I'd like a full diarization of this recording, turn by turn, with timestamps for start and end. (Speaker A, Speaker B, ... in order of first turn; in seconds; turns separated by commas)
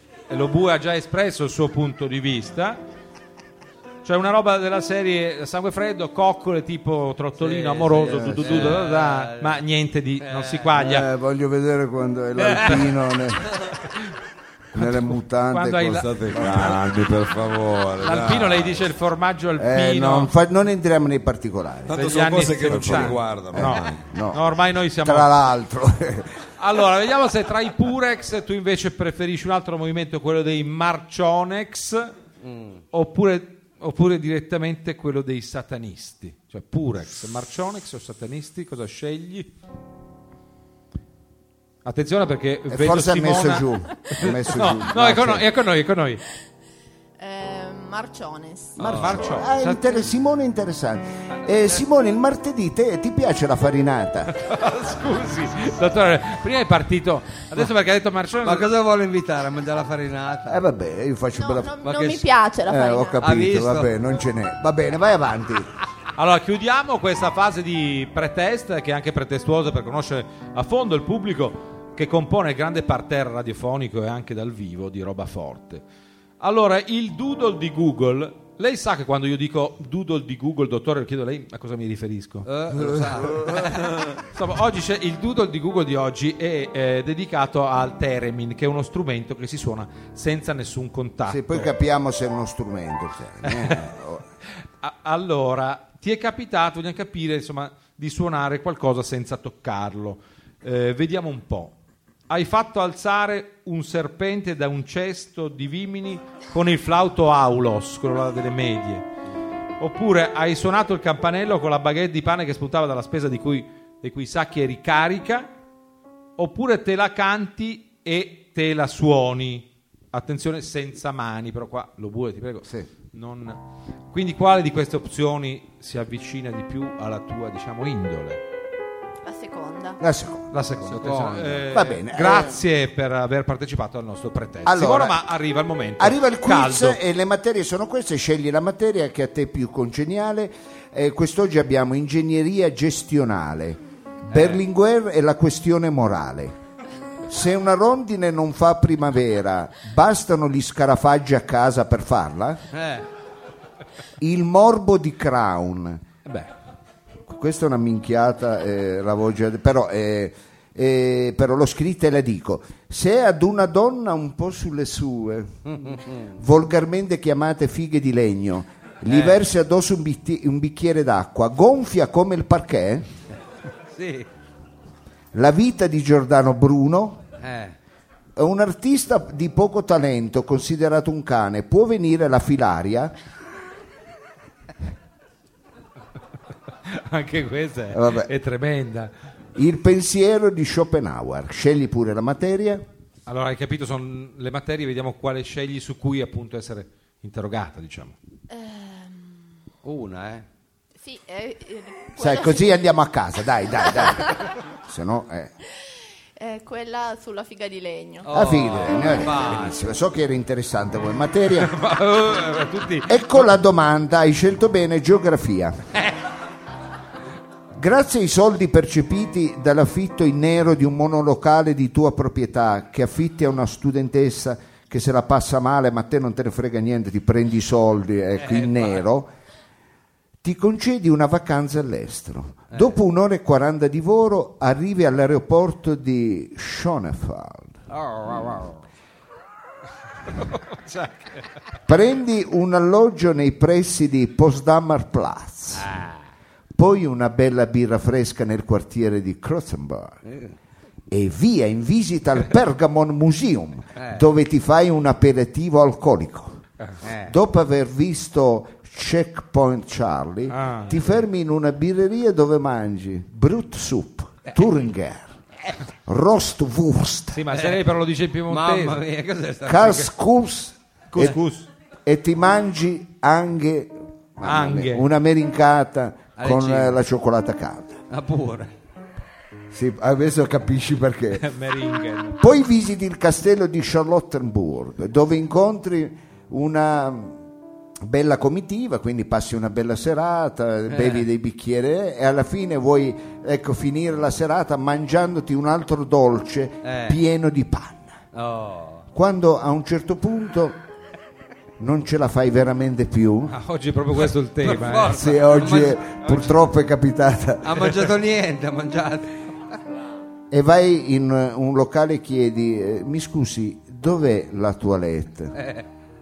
Speaker A: 0.3-2.8, Speaker A: 4.0-11.1, Speaker B: 7.4-9.6, Speaker C: 8.0-8.8, Speaker B: 10.2-10.7, Speaker C: 10.7-13.5, Speaker A: 12.3-12.9, Speaker C: 14.7-16.8, Speaker A: 14.7-16.1, Speaker D: 16.0-18.9, Speaker A: 18.0-20.3, Speaker C: 19.6-22.0, Speaker D: 21.9-24.0, Speaker A: 21.9-25.3, Speaker C: 22.7-24.5, Speaker C: 25.0-26.4, Speaker A: 26.6-32.1, Speaker B: 32.4-32.8, Speaker A: 32.9-39.5, Speaker A: 41.8-46.2, Speaker C: 42.7-45.4, Speaker E: 47.2-48.8, Speaker B: 48.8-49.1, Speaker A: 48.8-50.0, Speaker C: 48.8-54.3, Speaker A: 54.3-58.7, Speaker B: 58.4-60.6, Speaker C: 60.5-61.7, Speaker E: 61.4-63.2, Speaker B: 61.8-62.2, Speaker C: 62.7-65.7, Speaker B: 63.2-63.9, Speaker A: 66.2-75.8, Speaker A: 76.4-82.5, Speaker B: 82.5-84.1, Speaker A: 84.3-91.7, Speaker C: 91.2-94.2, Speaker A: 93.5-93.8, Speaker A: 94.8-101.7, Speaker A: 102.3-109.1, Speaker A: 109.8-115.5, Speaker A: 116.4-128.4, Speaker E: 129.2-130.0, Speaker C: 130.0-130.5, Speaker A: 130.5-137.0, Speaker B: 130.9-131.6, Speaker C: 131.7-132.6, Speaker C: 134.6-135.2, Speaker C: 136.0-146.6, Speaker B: 144.3-144.6, Speaker C: 147.3-152.6, Speaker B: 152.7-153.1, Speaker C: 154.2-156.0, Speaker A: 156.2-156.5, Speaker C: 157.3-165.7, Speaker B: 165.7-166.3, Speaker C: 166.4-173.1, Speaker B: 169.1-169.4, Speaker B: 173.9-174.3, Speaker C: 175.3-177.2, Speaker B: 177.4-177.8, Speaker C: 178.3-183.1, Speaker A: 186.8-189.1, Speaker C: 187.9-188.3, Speaker C: 189.6-192.8, Speaker A: 193.3-198.1, Speaker E: 198.5-199.5, Speaker B: 199.8-200.4, Speaker E: 201.0-202.8, Speaker C: 202.2-205.5, Speaker E: 206.4-208.3, Speaker B: 208.2-209.8, Speaker C: 208.3-211.7, Speaker A: 211.6-213.5, Speaker C: 213.1-215.8, Speaker C: 217.8-229.3, Speaker B: 228.4-229.0, Speaker C: 230.4-237.8, Speaker B: 237.9-238.8, Speaker A: 240.4-241.4, Speaker C: 241.9-245.9, Speaker B: 245.8-246.1, Speaker C: 246.7-250.2, Speaker B: 250.3-250.5, Speaker C: 251.1-256.6, Speaker B: 257.0-257.3, Speaker C: 257.2-265.3, Speaker A: 260.5-261.0, Speaker C: 266.1-267.4, Speaker A: 267.3-269.0, Speaker B: 267.5-267.8, Speaker B: 268.5-270.1, Speaker C: 269.6-271.4, Speaker A: 271.1-271.7, Speaker C: 272.0-278.0, Speaker A: 274.4-275.1, Speaker B: 276.4-277.0, Speaker B: 278.1-278.7, Speaker C: 279.7-281.4, Speaker A: 281.3-282.4, Speaker C: 282.4-287.4, Speaker C: 288.0-298.2, Speaker B: 290.9-291.2, Speaker B: 296.8-297.2, Speaker B: 298.3-299.1, Speaker C: 299.1-300.8, Speaker C: 301.8-303.5, Speaker A: 303.5-305.2, Speaker B: 304.6-306.0, Speaker C: 305.1-308.0, Speaker B: 307.6-309.3, Speaker C: 310.5-315.6, Speaker B: 315.6-315.8